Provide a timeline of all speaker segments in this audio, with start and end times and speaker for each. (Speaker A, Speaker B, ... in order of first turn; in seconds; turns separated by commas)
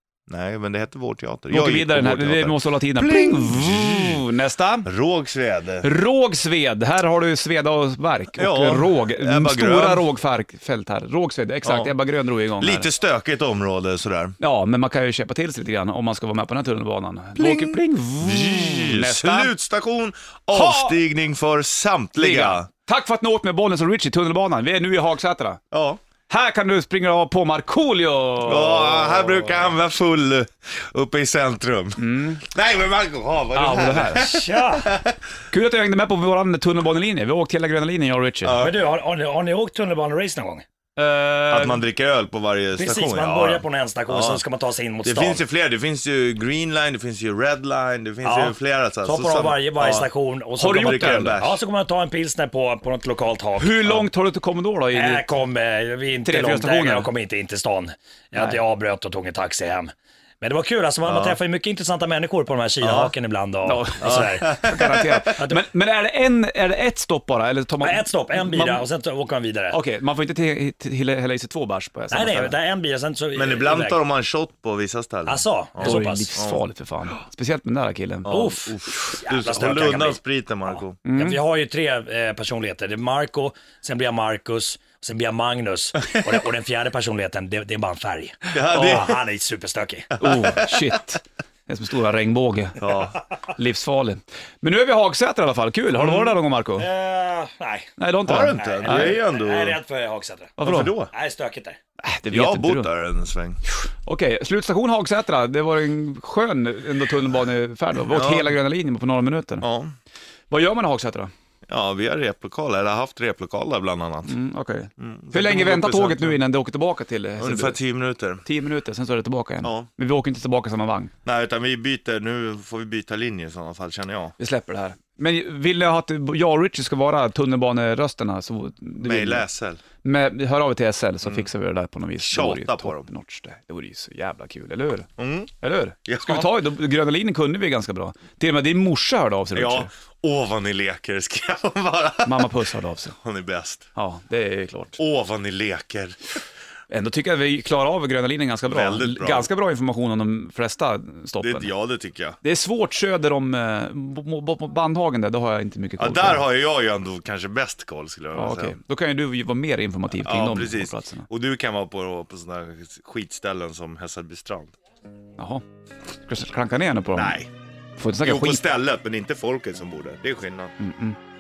Speaker A: 0.3-4.2, Speaker B: 1.5-4.9, Speaker A: 4.8-5.9, Speaker B: 5.8-12.9, Speaker A: 8.3-10.1, Speaker A: 11.6-11.9, Speaker A: 12.6-14.3, Speaker B: 14.4-19.5, Speaker A: 17.4-22.7, Speaker B: 20.5-21.0, Speaker B: 22.2-25.6, Speaker A: 25.7-26.0, Speaker B: 26.3-29.6, Speaker A: 28.4-35.1, Speaker B: 32.0-32.4, Speaker B: 33.5-34.4, Speaker C: 34.1-34.9, Speaker B: 35.5-38.7, Speaker A: 38.4-38.8, Speaker C: 38.6-40.6, Speaker B: 41.0-41.8, Speaker A: 41.5-44.4, Speaker C: 42.8-45.4, Speaker A: 45.0-51.6, Speaker C: 48.2-54.1, Speaker B: 50.6-51.4, Speaker B: 53.6-55.2, Speaker C: 54.9-64.6, Speaker B: 56.2-57.1, Speaker A: 61.0-61.4, Speaker B: 62.8-63.1, Speaker B: 63.6-68.8, Speaker A: 64.0-65.3, Speaker C: 65.3-65.7, Speaker C: 67.8-69.8, Speaker B: 69.7-72.6, Speaker C: 72.1-74.0, Speaker A: 73.3-76.7, Speaker C: 75.3-76.4, Speaker B: 75.8-78.6, Speaker A: 78.2-81.0, Speaker C: 78.3-90.1, Speaker B: 81.0-81.4, Speaker A: 88.5-89.2, Speaker B: 90.2-92.8, Speaker A: 90.2-90.8, Speaker A: 92.8-93.2, Speaker B: 93.5-96.9, Speaker A: 96.0-96.3, Speaker C: 96.8-97.9, Speaker B: 98.0-99.2, Speaker A: 98.2-99.8, Speaker C: 98.5-101.8, Speaker B: 100.6-101.0, Speaker A: 100.6-101.1, Speaker B: 102.0-102.9, Speaker A: 102.3-103.6, Speaker B: 104.0-109.6, Speaker A: 108.1-108.6, Speaker A: 109.6-109.9, Speaker B: 110.5-111.3, Speaker A: 111.7-114.3, Speaker B: 114.3-117.8, Speaker A: 115.0-116.4, Speaker A: 117.4-118.4, Speaker B: 118.4-121.1, Speaker A: 119.6-119.9, Speaker A: 121.2-124.3, Speaker B: 124.4-129.4, Speaker A: 129.0-129.8, Speaker B: 130.0-135.1, Speaker A: 132.2-133.1, Speaker A: 135.2-135.5, Speaker B: 135.6-139.9, Speaker A: 136.1-136.6, Speaker A: 139.5-142.5, Speaker B: 142.2-143.1, Speaker A: 143.2-143.8, Speaker B: 143.9-145.0, Speaker A: 145.0-146.2, Speaker B: 146.9-151.7, Speaker A: 148.7-149.5, Speaker A: 151.4-152.4, Speaker B: 152.4-156.4, Speaker A: 156.0-158.8, Speaker B: 158.3-161.3, Speaker A: 160.2-164.7, Speaker B: 165.4-165.6, Speaker B: 166.2-167.4, Speaker A: 167.1-167.5, Speaker B: 168.0-168.6, Speaker A: 168.2-170.7, Speaker B: 170.8-171.2